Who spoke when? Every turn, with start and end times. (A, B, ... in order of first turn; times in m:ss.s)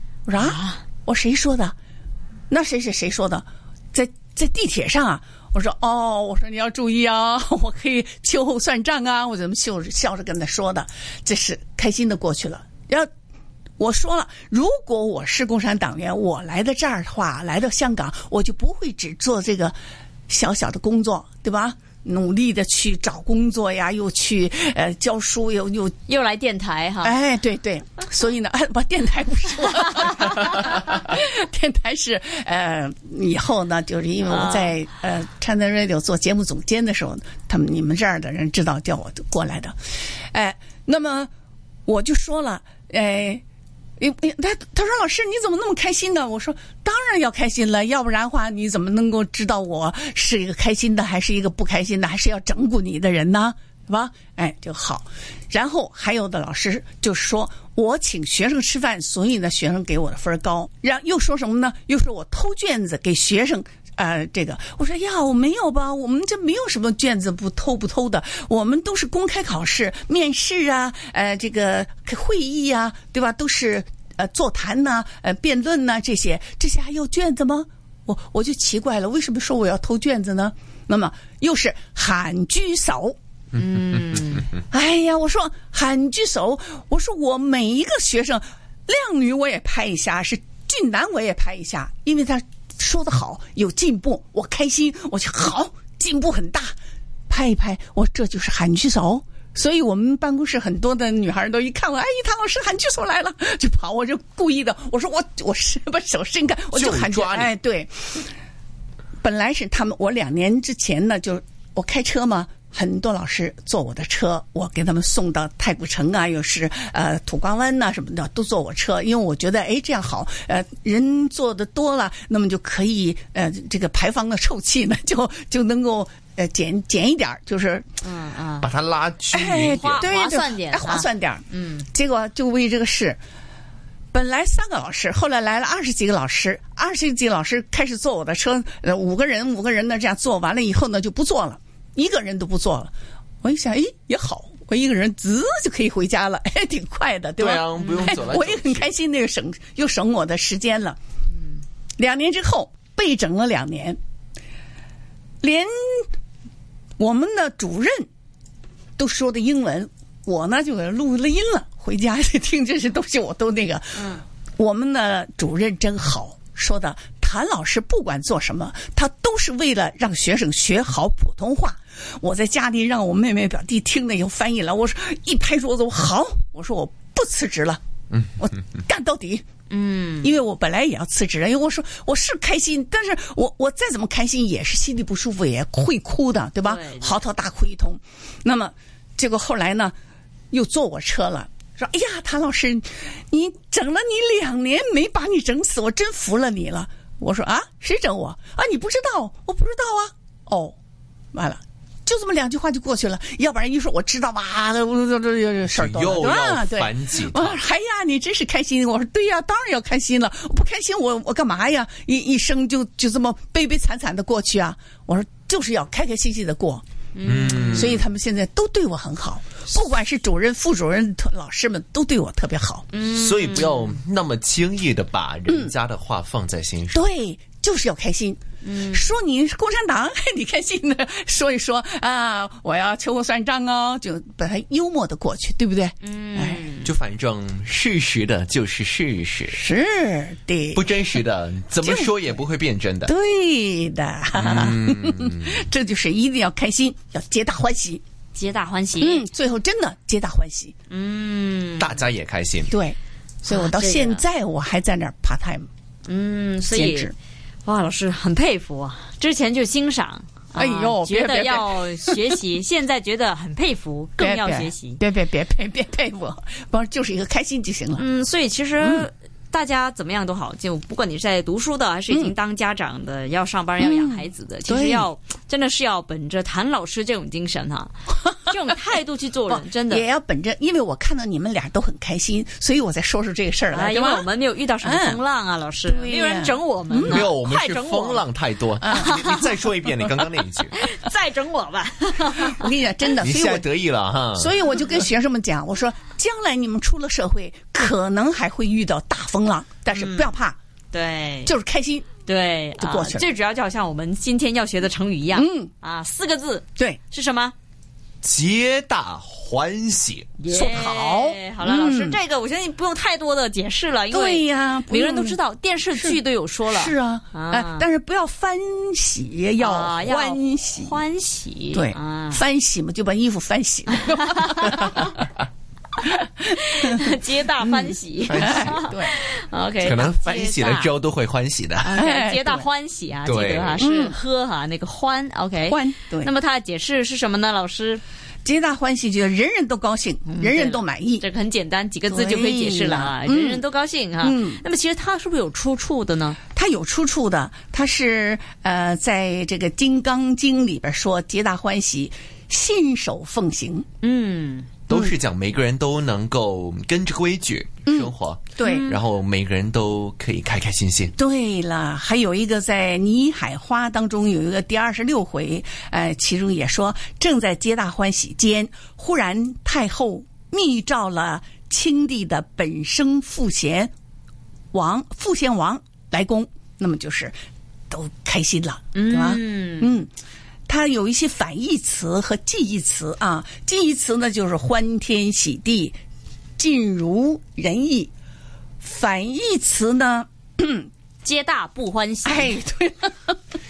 0:00.3-0:01.8 A
0:00.4-0:00.8 B
0:02.5-0:13.1 A
0:13.8-0:19.8 A
0:20.3-0:25.9 A
0:26.1-0:27.2 B
0:27.0-0:41.3 A
0:34.3-0:34.8 B
0:41.9-0:43.4 A
0:44.0-1:23.2 A
1:23.6-1:24.5 B
1:24.7-1:36.8 A
1:37.3-1:48.3 A
1:46.7-1:47.5 C
1:49.2-2:07.9 A
2:08.0-2:08.7 B
2:08.6-2:10.0 C
2:09.3-2:13.2 A
2:09.7-2:11.9 B
2:14.1-2:22.9 A
2:23.4-2:31.0 A
2:27.4-2:28.9 C
2:27.8-2:28.4 B
2:32.0-2:34.0 A
2:35.4-2:36.1 A
2:37.0-2:38.1 A
2:39.0-2:57.8 A
2:58.4-2:59.4 A
2:59.7-3:00.4 B
3:00.2-3:10.0 A
3:06.6-3:07.2 B
3:10.5-3:20.8 A
3:21.3-3:36.8 A
3:25.6-3:27.6 C
3:37.2-3:37.9 B
3:37.2-3:38.1 C
3:37.7-3:42.8 A
3:42.9-3:44.0 B
3:43.1-3:47.0 C
3:45.5-3:45.7 A
3:46.9-3:56.7 A
3:48.6-3:49.1 B
3:56.0-3:56.9 B
3:56.8-3:59.6 C
3:59.5-4:00.9 A
4:00.7-4:03.1 C
4:01.8-4:02.3 A
4:03.1-4:08.0 A
4:04.4-4:05.5 C
4:08.4-4:09.2 B
4:09.0-4:10.8 A
4:10.9-4:12.1 B
4:11.8-4:12.8 C
4:12.7-4:15.7 A
4:13.5-4:14.2 B
4:16.1-4:17.1 B
4:16.7-4:17.1 A
4:17.6-4:25.0 B
4:20.6-4:22.4 A
4:24.2-4:28.0 A
4:28.0-4:37.9 B
4:28.8-4:29.1 A
4:32.1-4:32.3 A
4:33.8-4:35.1 A
4:38.5-4:40.0 B
4:39.5-4:44.3 A
4:43.7-4:48.2 B
4:44.8-4:45.2 A
4:45.9-4:47.3 A
4:47.1-4:50.7 C
4:48.8-4:50.1 A
4:48.9-4:49.4 B
4:50.8-4:52.7 B
4:52.4-4:53.7 A
4:53.2-4:54.6 C
4:54.4-5:00.6 A
4:59.9-5:00.3 B
5:00.9-5:01.5 B
5:01.5-5:02.1 A
5:02.2-5:07.6 B
5:02.8-5:03.3 A
5:05.3-5:05.7 A
5:08.2-5:10.3 C
5:10.4-5:17.9 B
5:10.5-5:12.2 A
5:14.1-5:15.4 A
5:16.0-5:21.0 A
5:19.6-5:22.4 B
5:21.7-5:25.1 A
5:24.0-5:25.1 B
5:26.5-5:30.9 B
5:27.6-5:29.2 A
5:28.2-5:28.8 C
5:29.8-5:31.9 C
5:31.8-5:38.0 B
5:31.9-5:32.7 A
5:33.2-5:33.8 C
5:33.8-5:34.2 A
5:35.7-5:36.3 A
5:38.4-5:41.2 A
5:40.3-5:46.4 B
5:42.1-5:43.6 A
5:44.2-5:44.6 A
5:46.5-5:53.9 A
5:54.0-5:54.7 B
5:54.9-6:01.1 C
5:54.9-5:55.2 A
5:57.9-5:58.9 A
5:58.6-5:59.0 B
6:01.2-6:13.9 A
6:14.7-6:17.4 A
6:17.9-6:20.1 A
6:18.9-6:20.0 B
6:20.7-6:26.0 A
6:26.6-6:28.1 A
6:28.8-6:30.9 A
6:31.2-6:32.6 B
6:32.2-6:33.4 A